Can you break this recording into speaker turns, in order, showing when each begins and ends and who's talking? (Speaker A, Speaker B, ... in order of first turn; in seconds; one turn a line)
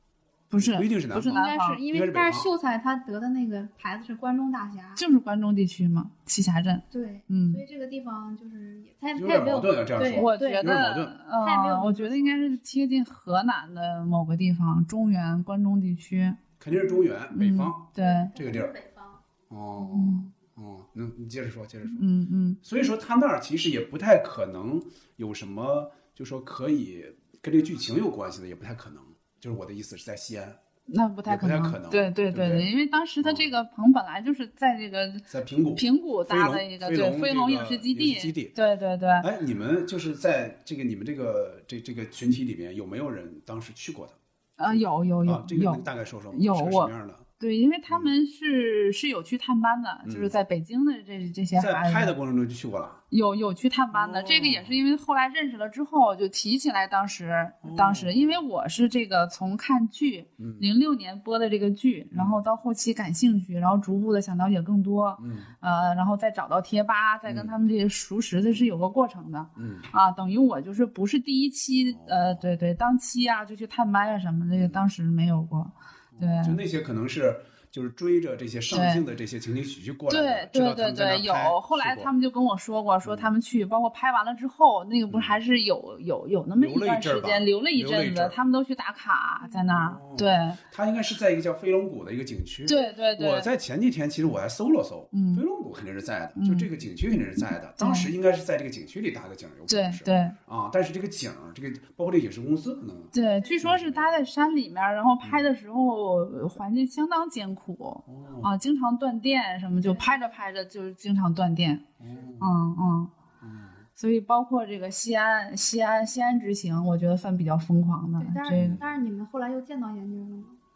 Speaker A: 0.5-1.8
Speaker B: 0.5-2.5
Speaker C: 1.3-5.0
Speaker A: 5.0-7.6
Speaker C: 6.9-10.7
Speaker B: 9.1-11.2
Speaker A: 10.1-16.4
Speaker C: 11.4-12.6
Speaker B: 16.6-18.7
Speaker C: 16.7-17.1
Speaker A: 17.3-18.3
Speaker C: 18.0-19.2
Speaker B: 19.5-22.0
Speaker A: 19.8-20.3
Speaker A: 21.9-22.6
Speaker B: 22.6-30.6
Speaker A: 30.9-39.3
Speaker B: 31.3-32.7
Speaker B: 33.2-33.5
Speaker B: 35.3-38.5
Speaker B: 39.2-47.2
Speaker A: 44.6-52.1
Speaker B: 50.0-50.3
Speaker B: 51.6-53.0
Speaker A: 53.1-76.6
Speaker B: 53.9-54.8
Speaker B: 57.6-58.4
Speaker B: 60.4-60.7
Speaker B: 62.1-62.4
Speaker B: 65.2-65.5
Speaker B: 67.3-67.5
Speaker B: 69.5-69.9
Speaker B: 71.9-72.5
Speaker B: 74.5-74.8
Speaker B: 76.1-82.1
Speaker A: 78.7-79.0
Speaker A: 80.1-90.6
Speaker B: 83.0-83.3
Speaker B: 85.1-85.4
Speaker B: 86.6-88.4
Speaker B: 89.7-104.2
Speaker A: 92.7-93.5
Speaker A: 95.1-95.4
Speaker A: 96.4-96.7
Speaker A: 97.8-98.1
Speaker A: 99.7-100.3
Speaker A: 103.1-111.8
Speaker B: 105.2-105.5
Speaker B: 108.0-108.5
Speaker C: 109.8-110.1
Speaker B: 112.0-112.5
Speaker A: 112.4-113.1
Speaker B: 113.4-113.8
Speaker A: 114.0-118.8
Speaker C: 118.2-120.6
Speaker B: 118.5-118.9